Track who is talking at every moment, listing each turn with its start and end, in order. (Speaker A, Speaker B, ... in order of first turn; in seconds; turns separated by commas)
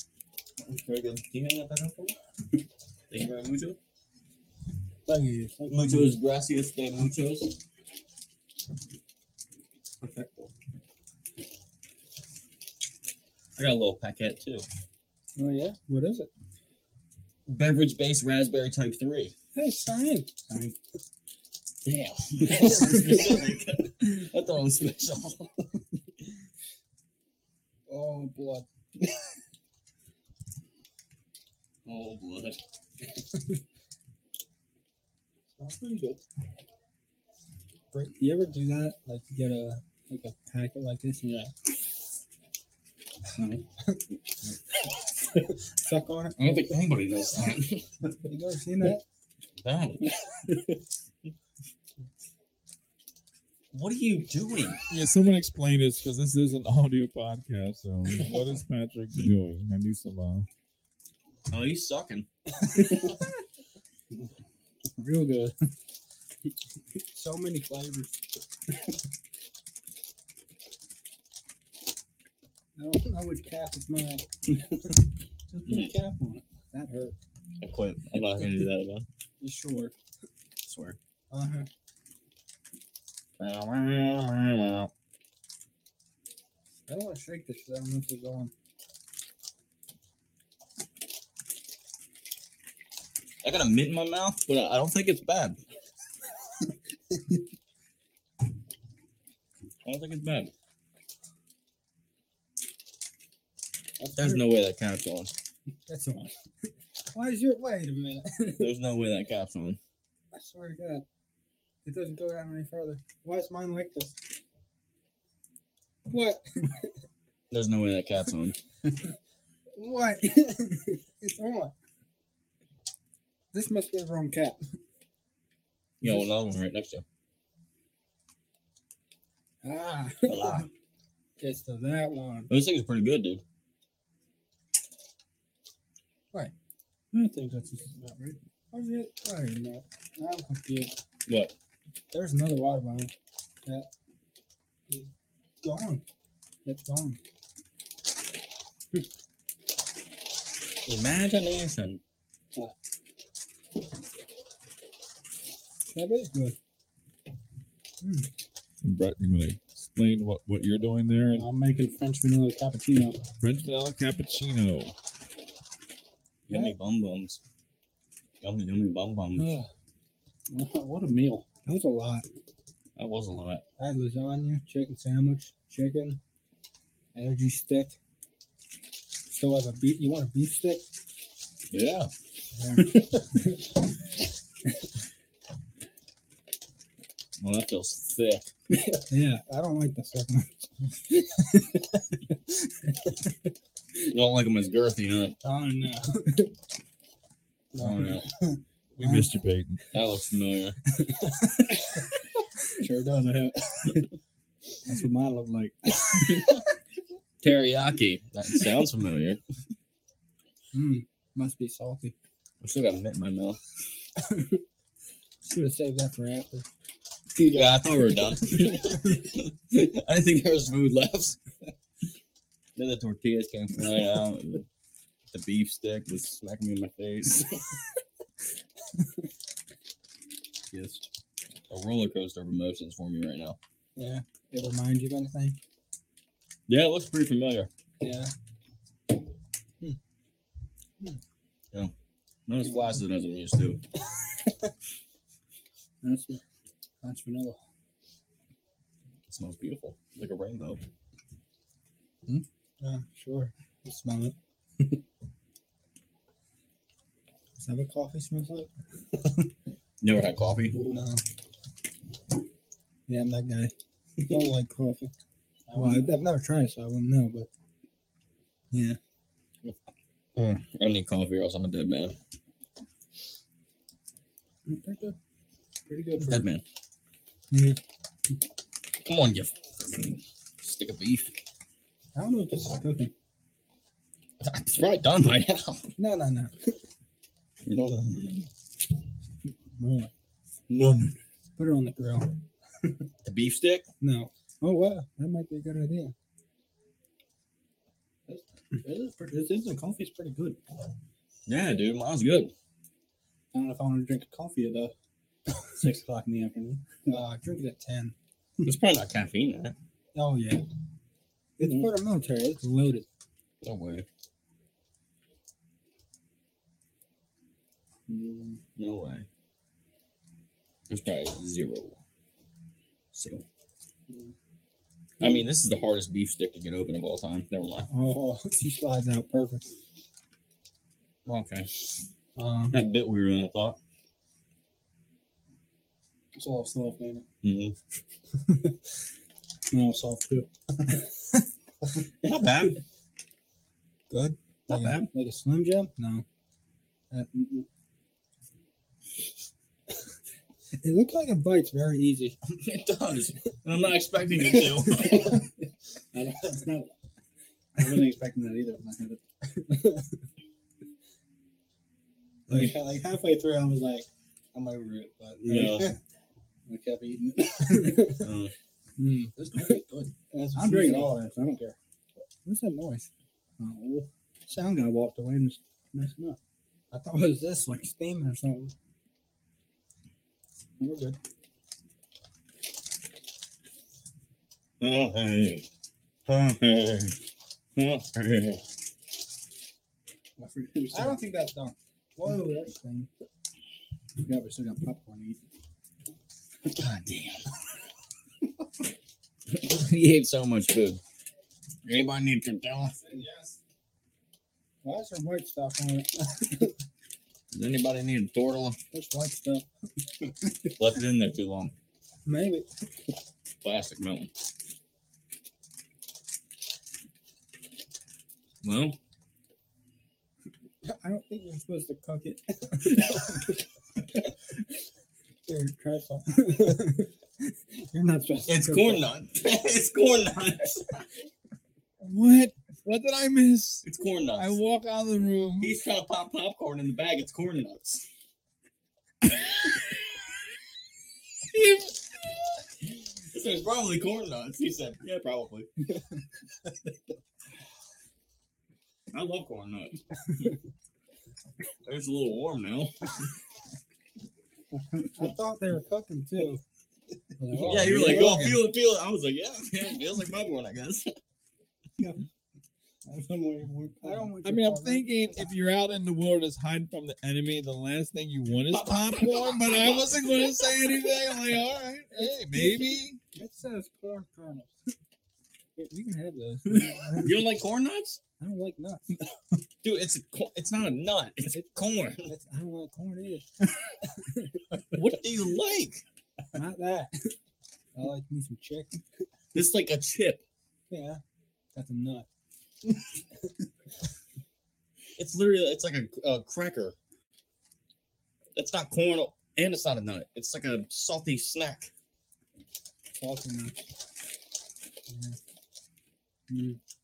Speaker A: 0.6-2.1, Speaker A: 3.1-3.8, Speaker B: 5.0-6.1, Speaker A: 5.7-7.6, Speaker A: 10.0-10.5, Speaker A: 13.6-14.6, Speaker B: 15.3-16.3, Speaker A: 17.5-19.3, Speaker B: 19.5-20.4, Speaker C: 20.5-20.7, Speaker A: 21.8-25.5, Speaker B: 27.9-28.6, Speaker A: 31.9-32.6, Speaker C: 35.6-36.2, Speaker B: 37.9-41.5, Speaker C: 43.3-43.6, Speaker B: 45.7-46.7, Speaker A: 46.4-48.1, Speaker B: 48.2-49.0, Speaker A: 49.6-50.1, Speaker A: 53.7-54.8, Speaker D: 54.9-60.5, Speaker A: 61.5-62.3, Speaker C: 62.7-63.1, Speaker C: 65.0-65.5, Speaker B: 67.1-68.2, Speaker B: 72.8-74.2, Speaker C: 75.5-76.4, Speaker A: 75.7-75.9, Speaker B: 76.7-77.2, Speaker A: 77.6-79.0, Speaker B: 79.4-79.9, Speaker A: 80.6-81.0, Speaker B: 81.3-81.7, Speaker A: 83.4-84.9, Speaker B: 86.9-88.5, Speaker A: 93.4-95.6, Speaker A: 99.8-100.5, Speaker B: 104.0-104.5, Speaker A: 104.1-105.3, Speaker B: 105.9-106.3, Speaker B: 107.1-108.7, Speaker A: 108.6-109.8, Speaker B: 110.3-111.0, Speaker B: 111.8-114.2, Speaker B: 116.1-116.9, Speaker A: 117.5-118.5, Speaker B: 119.8-121.7, Speaker B: 123.5-124.6, Speaker A: 126.0-127.0, Speaker B: 129.6-130.6, Speaker A: 130.2-130.7, Speaker B: 131.4-132.5, Speaker A: 132.5-133.4, Speaker C: 137.1-138.4, Speaker B: 138.7-140.9, Speaker A: 141.3-141.5, Speaker B: 142.1-143.1, Speaker B: 145.6-146.0, Speaker B: 146.6-147.2, Speaker A: 150.8-152.0, Speaker B: 155.9-156.6, Speaker B: 158.0-158.3, Speaker D: 158.8-161.5, Speaker C: 161.3-163.2, Speaker D: 163.4-164.9, Speaker A: 166.5-167.4, Speaker B: 166.5-166.7, Speaker A: 168.4-169.5, Speaker C: 169.4-169.7, Speaker C: 170.5-171.4, Speaker B: 171.7-172.2, Speaker A: 172.9-173.6, Speaker B: 173.8-176.2, Speaker B: 177.1-178.0, Speaker B: 179.3-180.8, Speaker A: 181.7-182.1, Speaker B: 182.5-183.6, Speaker C: 182.9-183.2, Speaker A: 187.4-188.5, Speaker B: 189.1-190.5, Speaker B: 191.4-191.8, Speaker A: 194.1-195.3, Speaker B: 195.4-196.5, Speaker B: 197.7-199.3, Speaker A: 197.8-198.2, Speaker D: 199.0-199.8, Speaker A: 199.9-200.8, Speaker B: 201.2-201.6, Speaker C: 202.8-204.1, Speaker C: 204.9-206.5, Speaker A: 207.4-209.4, Speaker B: 210.7-212.1, Speaker A: 212.6-213.6, Speaker B: 214.2-214.6, Speaker B: 215.4-216.7, Speaker C: 217.3-218.3, Speaker A: 217.5-221.4, Speaker A: 222.8-224.6, Speaker A: 225.3-227.6, Speaker A: 230.7-231.0, Speaker A: 231.7-233.6, Speaker B: 233.9-235.6, Speaker A: 236.7-237.7, Speaker B: 238.0-238.3, Speaker A: 242.5-243.8, Speaker C: 246.0-246.4, Speaker C: 247.0-247.6, Speaker A: 249.3-250.8, Speaker B: 252.8-254.3, Speaker B: 257.6-259.5, Speaker A: 260.0-260.9, Speaker B: 260.9-261.2, Speaker B: 263.1-263.7, Speaker C: 264.2-264.5, Speaker B: 264.2-265.1, Speaker C: 265.7-266.1, Speaker B: 265.7-267.5, Speaker B: 268.7-269.0, Speaker A: 270.4-272.1, Speaker C: 274.7-275.1, Speaker B: 274.8-275.1, Speaker C: 275.9-276.4, Speaker A: 276.2-276.6, Speaker B: 277.5-277.8, Speaker A: 279.0-281.3, Speaker B: 282.1-283.1, Speaker A: 284.4-285.9, Speaker B: 286.0-286.8, Speaker A: 287.6-288.4, Speaker B: 289.8-290.1, Speaker A: 290.7-291.1, Speaker B: 291.6-292.9, Speaker A: 293.2-293.9, Speaker B: 294.0-296.1, Speaker C: 298.3-300.6, Speaker A: 301.4-302.5, Speaker C: 303.5-304.9, Speaker C: 305.7-307.2, Speaker B: 307.1-308.1, Speaker A: 308.6-309.7, Speaker B: 310.1-310.6, Speaker B: 311.6-313.1, Speaker C: 311.6-311.9, Speaker A: 313.6-314.1, Speaker C: 318.1-318.6, Speaker A: 318.8-319.2, Speaker A: 320.9-322.0, Speaker A: 323.1-323.4, Speaker A: 325.2-327.9, Speaker B: 327.9-329.6, Speaker A: 331.2-331.9, Speaker B: 332.4-332.8, Speaker A: 332.7-333.8, Speaker C: 336.3-337.2, Speaker A: 337.4-337.8, Speaker C: 339.7-341.0, Speaker A: 342.2-342.8, Speaker B: 344.1-345.1, Speaker C: 344.7-346.0, Speaker B: 346.0-346.2, Speaker C: 347.1-347.6, Speaker B: 350.8-352.4, Speaker A: 352.4-355.4, Speaker C: 355.0-355.4, Speaker C: 356.1-356.9, Speaker C: 357.8-359.2, Speaker B: 359.7-360.1, Speaker B: 362.5-362.7, Speaker C: 362.5-365.9, Speaker A: 365.4-365.9, Speaker C: 366.7-368.2, Speaker B: 367.6-368.2, Speaker A: 368.2-368.5, Speaker B: 369.0-369.8, Speaker C: 369.4-371.8, Speaker B: 370.5-371.1, Speaker B: 372.4-373.1, Speaker C: 373.6-376.4, Speaker B: 376.9-378.7, Speaker B: 380.8-381.2, Speaker A: 384.8-385.6, Speaker A: 386.2-387.2, Speaker A: 387.8-388.6, Speaker C: 390.4-391.2, Speaker B: 390.9-393.1, Speaker C: 394.2-395.4, Speaker A: 396.7-397.4, Speaker A: 399.5-401.0, Speaker A: 401.8-403.0, Speaker D: 403.0-403.6, Speaker B: 404.8-406.7, Speaker A: 407.5-408.8, Speaker B: 408.9-409.6, Speaker C: 408.9-409.6, Speaker A: 410.7-411.7, Speaker B: 412.2-412.6, Speaker A: 413.6-414.3, Speaker A: 418.6-419.0, Speaker B: 420.8-423.6, Speaker B: 425.4-427.1, Speaker B: 427.9-429.1, Speaker A: 428.5-431.0, Speaker D: 432.0-435.8, Speaker A: 433.8-434.6, Speaker A: 435.6-438.0, Speaker D: 441.5-441.9, Speaker A: 443.3-445.9, Speaker A: 449.1-450.0, Speaker A: 451.8-453.1, Speaker B: 455.1-456.6, Speaker C: 457.4-458.5, Speaker B: 457.4-458.3, Speaker A: 457.6-461.1, Speaker C: 463.0-464.3, Speaker B: 464.0-465.4, Speaker D: 464.4-473.2, Speaker A: 468.8-470.5, Speaker B: 473.3-474.7, Speaker B: 475.8-477.3, Speaker A: 477.2-478.2, Speaker B: 478.4-479.2, Speaker A: 479.8-482.3, Speaker B: 482.2-484.6, Speaker A: 484.9-486.0, Speaker B: 486.5-487.1, Speaker B: 487.9-489.0, Speaker A: 489.5-490.4, Speaker B: 490.9-491.2, Speaker B: 491.7-492.3, Speaker A: 495.2-496.9, Speaker A: 498.5-501.9, Speaker B: 503.2-503.8, Speaker B: 505.1-505.4, Speaker B: 506.5-506.8